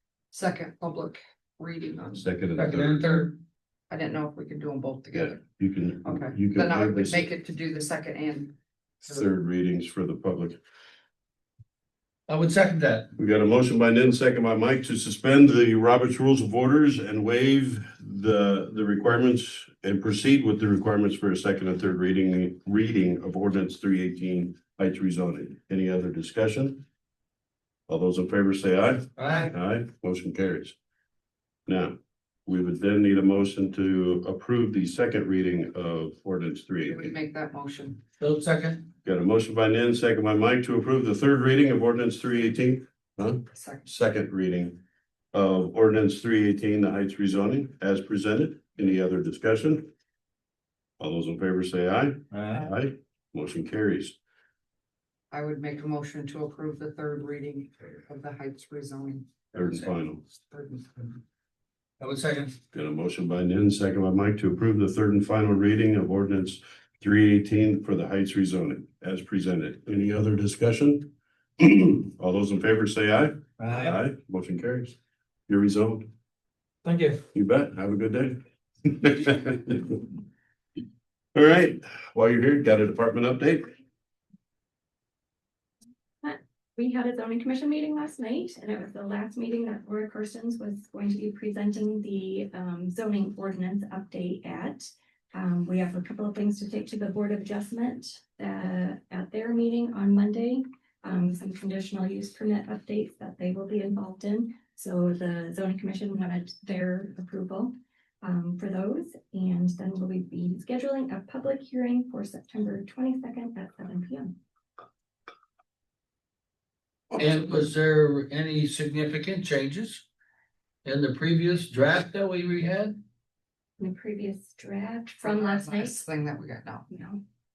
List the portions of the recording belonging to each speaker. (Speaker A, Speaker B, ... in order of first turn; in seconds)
Speaker A: 0.3-2.2, 3.0-3.3, 3.9-5.4, 6.0-9.3, 36.9-38.0, 43.5-43.9, 55.3-61.2, 125.2-126.9
Speaker B: 2.1-3.0, 5.1-7.3, 9.1-10.6, 13.2-26.8, 27.9-30.8, 31.7-37.1, 39.0-44.8, 45.3-49.9, 51.0-54.2, 59.5-60.2, 62.7-75.0, 75.5-76.1, 77.3-80.1, 81.3-83.8
Speaker C: 2.6-3.3, 12.3-13.1, 29.2-29.5, 38.2-38.9, 52.3-52.7, 62.0-62.6, 73.6-74.0, 76.8-77.2, 117.1-120.0, 120.8-123.0
Speaker D: 86.2-114.4, 123.8-126.0, 126.9-127.2